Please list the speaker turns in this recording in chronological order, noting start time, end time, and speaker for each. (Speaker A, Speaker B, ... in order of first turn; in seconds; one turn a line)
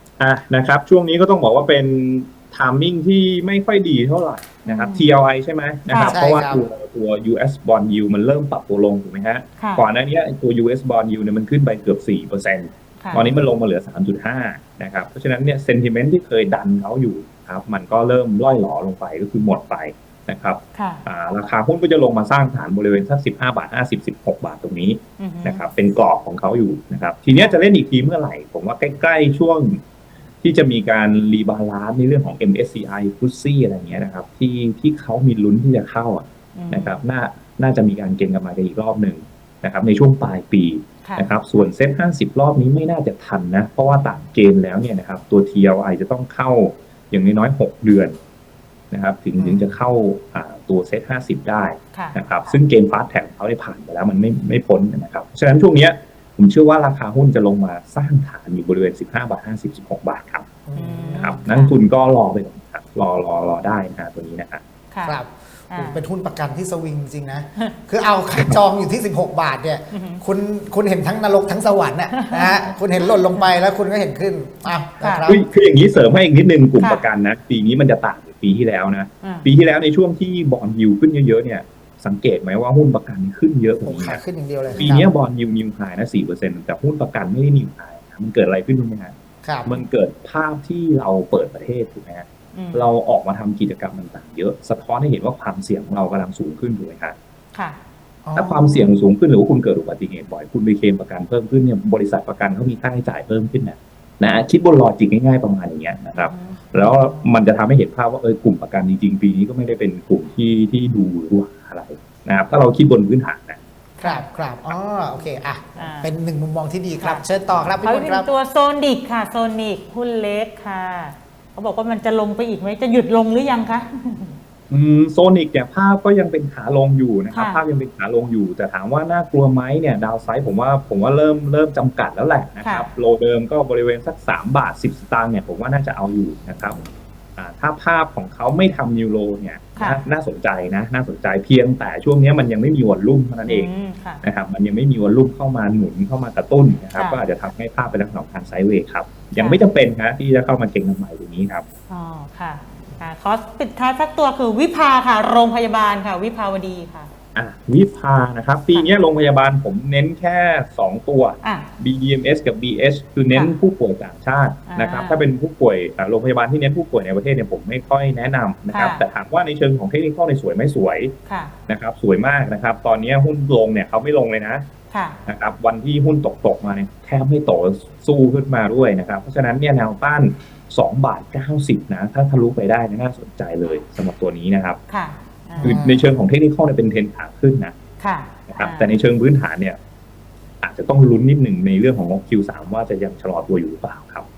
Speaker A: 0.2-29.8
Speaker B: 4.7-5.1
Speaker B: 5.9-6.2
Speaker C: 6.1-6.7
Speaker B: 9.6-9.8
Speaker B: 13.0-13.4
Speaker B: 20.8-21.0
Speaker B: 25.2-25.7
Speaker B: 27.3-27.6
Speaker A: 30.4-48.2
Speaker B: 36.5-37.0
Speaker B: 41.0-41.3
Speaker A: 48.9-60.5
Speaker C: 49.4-49.7
Speaker B: 51.9-52.5
Speaker C: 60.7-61.4
Speaker B: 60.8-61.7
Speaker A: 61.1-64.6
Speaker B: 64.9-65.2
Speaker C: 65.0-75.4
Speaker B: 65.7-66.0
Speaker B: 69.9-70.2
Speaker B: 72.1-72.6
Speaker B: 73.2-73.5
Speaker B: 75.0-75.3
Speaker A: 75.3-84.2
Speaker B: 76.8-77.1
Speaker C: 83.8-85.1
Speaker A: 84.8-89.1
Speaker C: 89.5-89.7
Speaker A: 89.7-97.2
Speaker B: 92.5-92.9
Speaker C: 98.2-98.9
Speaker A: 98.4-113.6
Speaker B: 106.1-107.1
Speaker B: 114.0-114.3
Speaker C: 114.0-118.3
Speaker B: 115.8-116.1
Speaker B: 117.0-117.2
Speaker B: 117.8-124.4
Speaker A: 124.7-136.8
Speaker B: 127.3-127.6
Speaker B: 132.6-132.9
Speaker A: 137.4-143.7
Speaker B: 139.8-140.0
Speaker B: 143.4-144.2
Speaker A: 144.2-151.7
Speaker B: 146.9-147.2
Speaker B: 149.4-149.7
Speaker B: 151.9-157.1
Speaker A: 157.3-171.1
Speaker B: 164.7-165.2
Speaker B: 168.7-169.0
Speaker B: 171.3-171.5
Speaker A: 171.7-174.7
Speaker B: 174.9-175.2
Speaker A: 175.3-184.8
Speaker B: 184.9-185.8
Speaker C: 185.6-186.2
Speaker A: 185.6-187.7
Speaker B: 188.0-189.0
Speaker A: 188.5-189.8
Speaker A: 190.6-194.3